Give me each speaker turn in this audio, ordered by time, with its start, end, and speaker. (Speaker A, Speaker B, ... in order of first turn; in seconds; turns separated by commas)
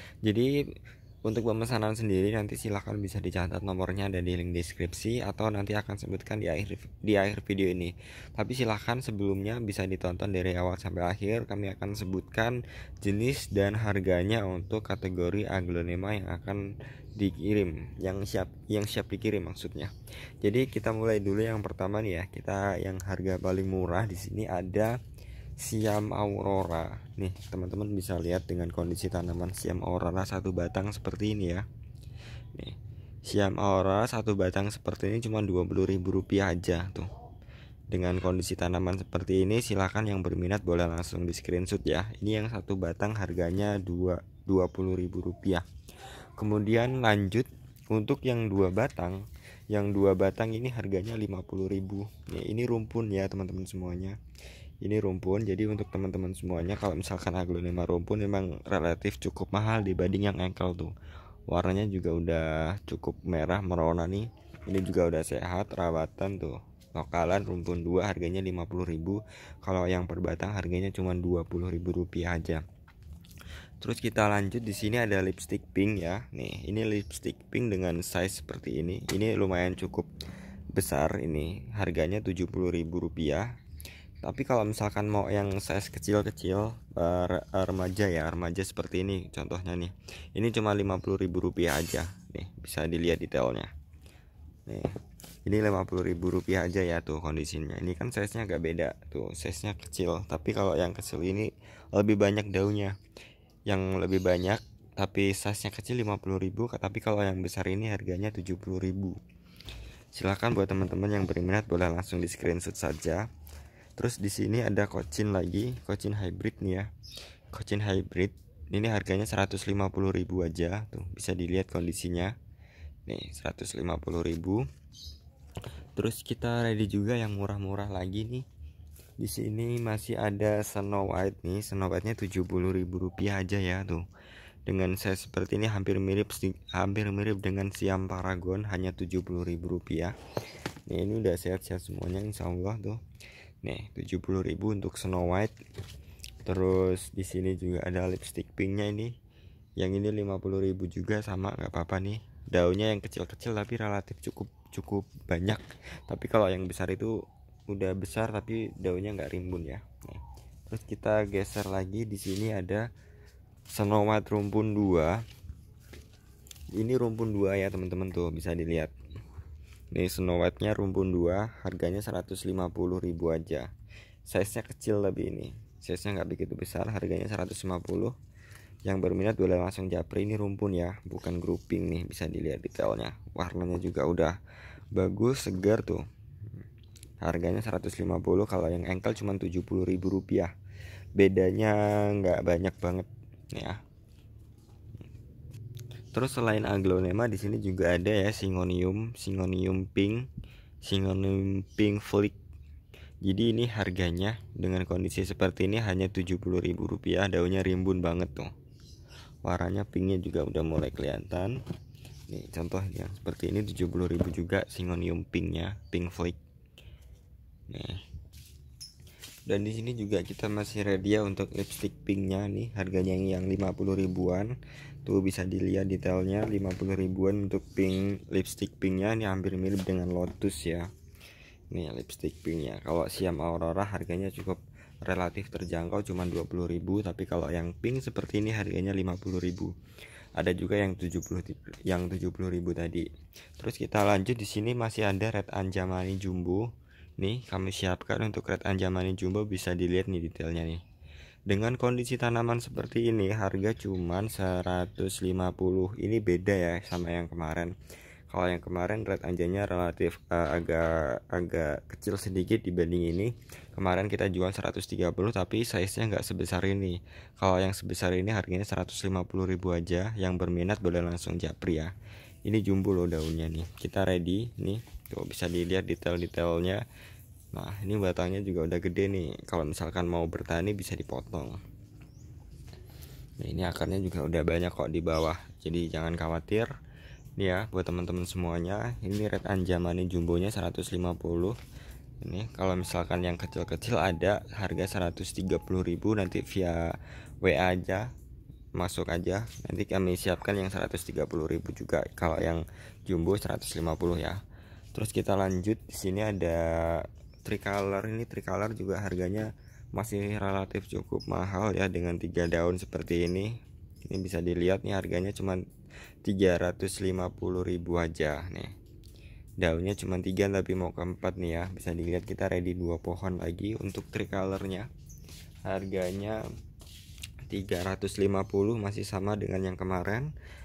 Speaker A: 1.3-16.6, Speaker A: 17.2-24.9, Speaker A: 25.6-31.6, Speaker A: 32.5-37.1, Speaker A: 37.9-45.6, Speaker A: 46.4-54.2, Speaker A: 54.8-60.9, Speaker A: 61.5-72.6, Speaker A: 73.8-80.1, Speaker A: 80.7-83.5, Speaker A: 84.2-93.7, Speaker A: 95.5-103.0, Speaker A: 103.7-109.2, Speaker A: 110.1-113.3, Speaker A: 114.0-116.9, Speaker A: 117.5-122.3, Speaker A: 123.1-124.7, Speaker A: 126.0-128.4, Speaker A: 129.2-134.0, Speaker A: 134.7-140.1, Speaker A: 140.9-143.0, Speaker A: 143.6-145.6, Speaker A: 146.4-149.1, Speaker A: 149.8-162.9, Speaker A: 163.7-165.2, Speaker A: 166.7-168.9, Speaker A: 169.9-173.7, Speaker A: 174.3-178.1, Speaker A: 178.9-184.4, Speaker A: 184.9-186.0, Speaker A: 187.2-190.5, Speaker A: 191.2-193.8, Speaker A: 196.1-200.3, Speaker A: 200.8-202.4, Speaker A: 203.2-208.5, Speaker A: 209.4-211.6, Speaker A: 212.3-216.4, Speaker A: 217.7-218.0, Speaker A: 219.5-230.9, Speaker A: 231.7-239.7, Speaker A: 240.4-243.1, Speaker A: 243.6-246.7, Speaker A: 247.2-250.8, Speaker A: 251.5-257.7, Speaker A: 258.3-271.9, Speaker A: 272.4-276.8, Speaker A: 277.5-281.6, Speaker A: 283.4-286.7, Speaker A: 287.4-291.6, Speaker A: 292.2-298.1, Speaker A: 298.8-304.4, Speaker A: 304.9-315.6, Speaker A: 316.2-318.8, Speaker A: 319.6-324.9, Speaker A: 325.7-326.4, Speaker A: 327.5-330.3